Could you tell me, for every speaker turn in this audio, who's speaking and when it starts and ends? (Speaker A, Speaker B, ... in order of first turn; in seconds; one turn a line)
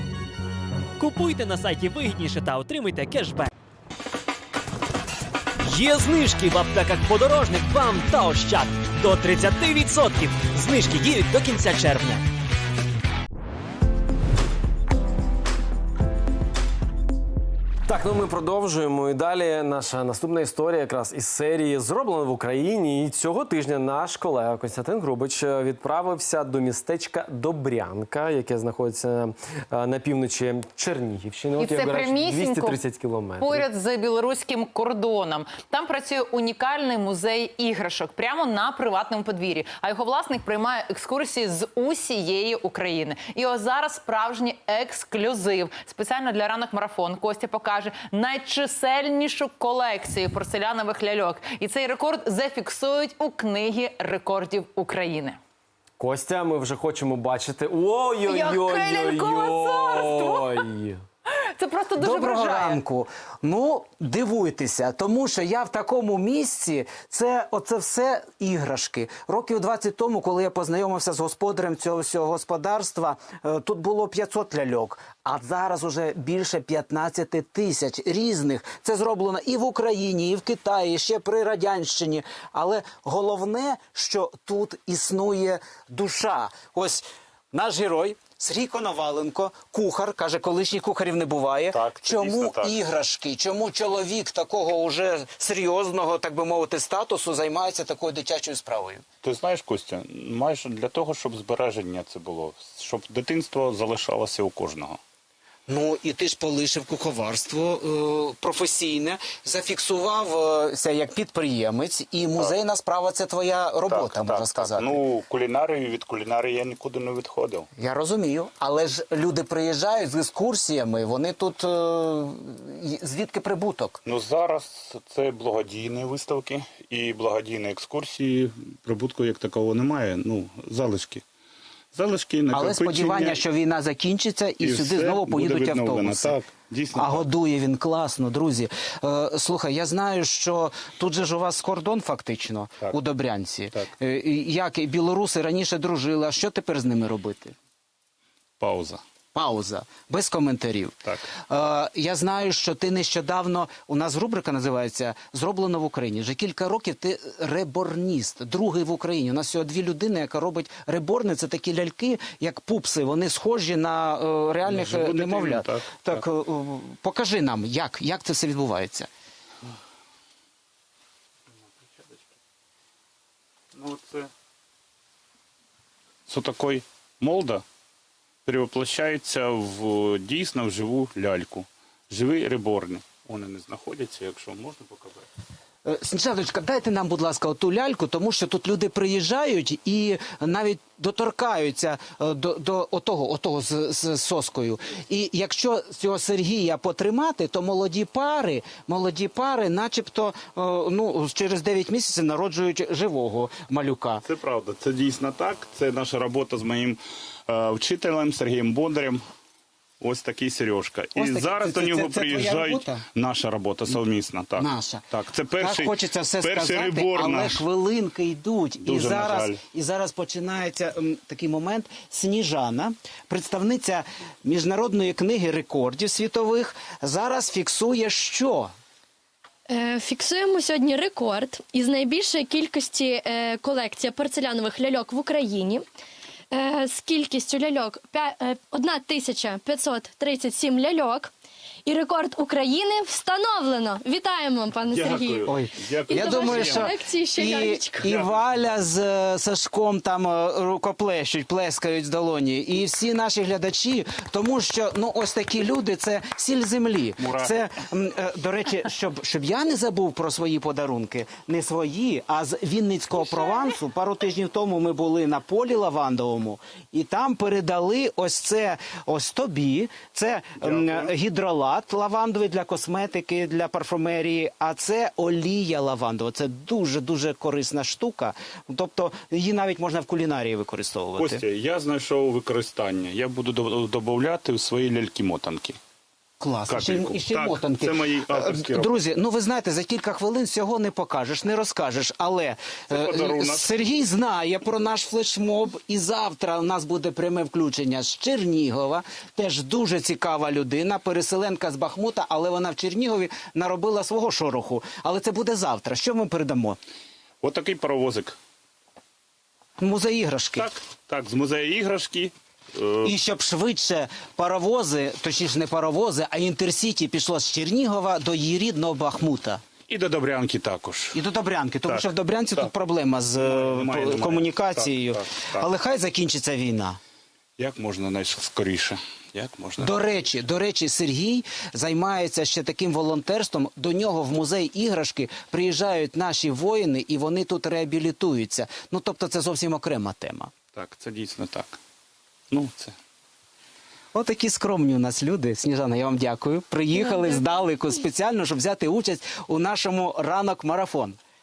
Speaker A: 1.0-3.5
Speaker A: 5.6-12.2
Speaker B: 17.9-33.7
Speaker C: 31.6-32.8
Speaker C: 33.4-55.4
Speaker B: 56.0-61.0
Speaker C: 58.2-60.6
Speaker C: 61.3-62.8
Speaker D: 62.0-99.0
Speaker E: 91.7-92.8
Speaker E: 99.2-105.0
Speaker D: 105.7-115.0
Speaker E: 113.9-117.7
Speaker D: 117.8-124.0
Speaker E: 124.0-131.2
Speaker E: 131.9-133.4
Speaker D: 132.5-136.4
Speaker E: 134.6-137.3
Speaker D: 137.0-147.6
Speaker E: 148.6-149.0
Speaker D: 149.3-169.1
Speaker E: 151.1-151.4
Speaker E: 164.7-166.2
Speaker E: 171.9-172.2
Speaker E: 173.7-174.3
Speaker E: 176.3-177.6
Speaker E: 178.4-185.3
Speaker D: 185.8-204.2
Speaker E: 204.2-209.2
Speaker E: 210.0-217.7
Speaker D: 211.2-213.0
Speaker D: 214.6-215.1
Speaker D: 215.6-228.7
Speaker E: 218.8-219.6
Speaker F: 229.7-235.8
Speaker F: 236.5-241.3
Speaker F: 241.9-248.1
Speaker E: 244.9-247.4
Speaker D: 245.5-281.4
Speaker E: 247.9-248.8
Speaker E: 257.2-257.7
Speaker E: 270.6-271.1
Speaker E: 281.2-285.8
Speaker D: 286.4-306.8
Speaker E: 286.7-289.0
Speaker E: 292.9-293.8
Speaker E: 307.4-308.4
Speaker D: 309.8-310.7
Speaker E: 310.6-313.2
Speaker D: 313.0-319.6
Speaker E: 319.9-321.2
Speaker D: 321.1-327.0
Speaker E: 321.9-322.7
Speaker E: 323.4-325.7
Speaker E: 327.6-330.1
Speaker D: 329.8-340.5
Speaker E: 340.7-341.8
Speaker E: 342.5-343.0
Speaker D: 344.1-351.2